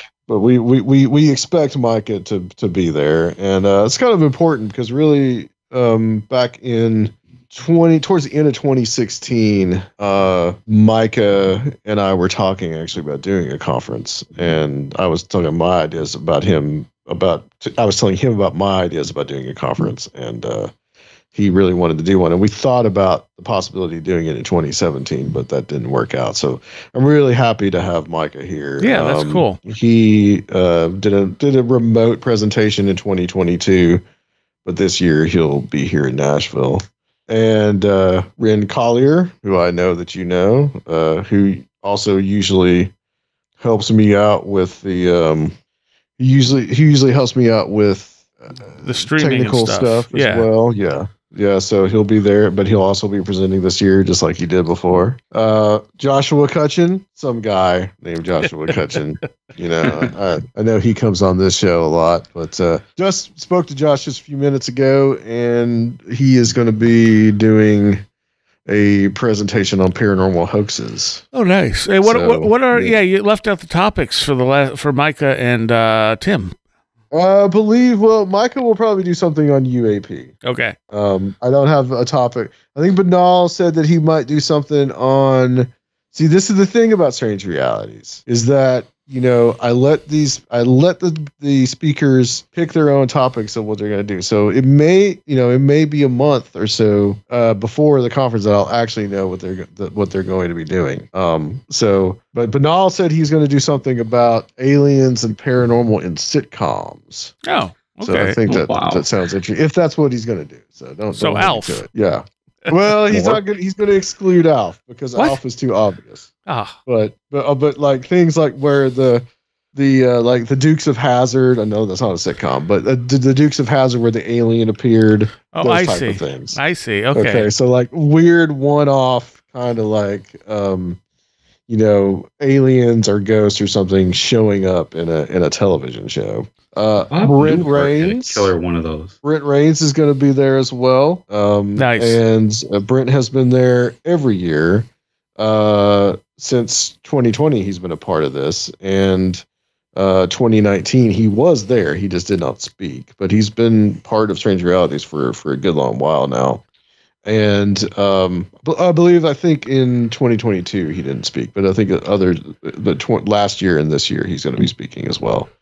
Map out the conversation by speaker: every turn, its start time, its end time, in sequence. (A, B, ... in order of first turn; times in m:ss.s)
0:00.3-0:20.7 A
0:21.3-0:34.0 A
0:28.8-0:29.6 B
0:34.6-0:42.9 A
0:43.6-0:45.6 A
0:46.2-1:08.0 A
0:48.8-0:50.5 B
1:08.7-1:11.3 A
1:11.3-1:16.5 B
1:12.0-1:13.0 A
1:17.1-1:20.3 A
1:20.4-1:20.8 B
1:20.9-1:47.4 A
1:47.4-1:48.4 B
1:48.0-1:56.3 A
1:48.5-1:49.1 C
1:51.1-1:51.8 B
1:52.7-1:53.3 B
1:56.5-1:56.8 B
1:56.9-2:06.6 A
2:05.5-2:07.5 B
2:07.1-2:11.0 A
2:11.7-2:18.5 A
2:17.1-2:19.2 C
2:19.2-2:29.4 A
2:21.8-2:22.2 B
2:30.0-2:36.6 A
2:37.2-2:45.5 A